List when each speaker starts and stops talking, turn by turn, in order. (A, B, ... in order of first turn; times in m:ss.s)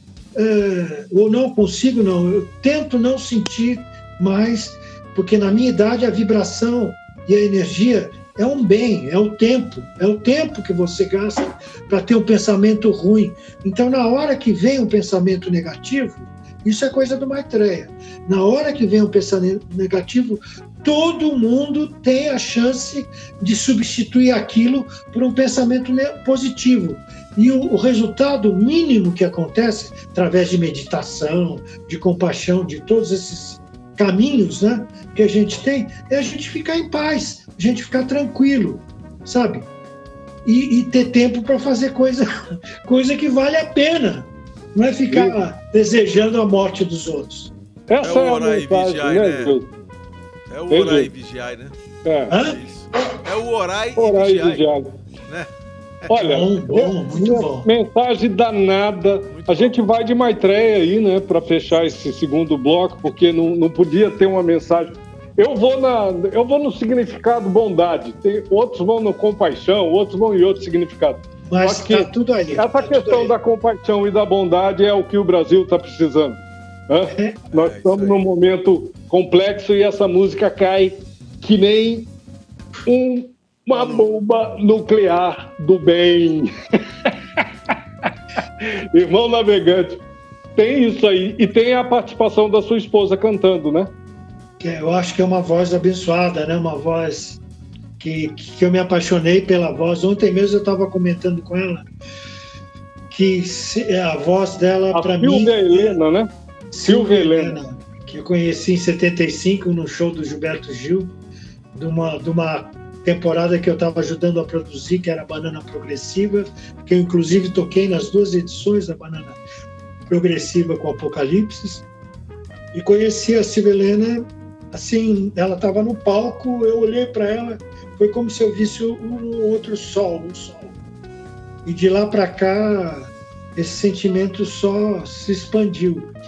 0:00.3-0:39.7 A
0:40.4-0:47.5 A
0:45.1-0:45.4 B
0:47.9-0:49.7 B
0:48.0-0:49.6 C
0:50.5-0:51.7 C
0:50.7-0:51.1 B
0:52.0-0:52.3 B
0:52.3-0:52.6 A
0:52.3-0:54.7 C
0:54.0-0:54.9 B
0:56.1-1:22.1 B
0:56.1-0:57.7 A
0:59.3-0:59.8 C
1:11.4-1:13.4 A
1:17.1-1:17.4 A
1:17.5-1:18.2 C
1:22.9-1:26.5 B
1:23.7-1:24.1 C
1:28.6-1:30.0 B
1:30.6-1:33.9 B
1:34.6-1:37.4 A
1:38.0-1:41.9 A
1:43.1-1:46.0 A
1:44.9-1:46.3 B
1:46.7-1:51.1 A
1:46.8-1:47.6 B
1:51.7-1:59.4 A
2:00.1-2:01.8 A
2:02.7-2:10.7 A
2:11.6-2:16.1 A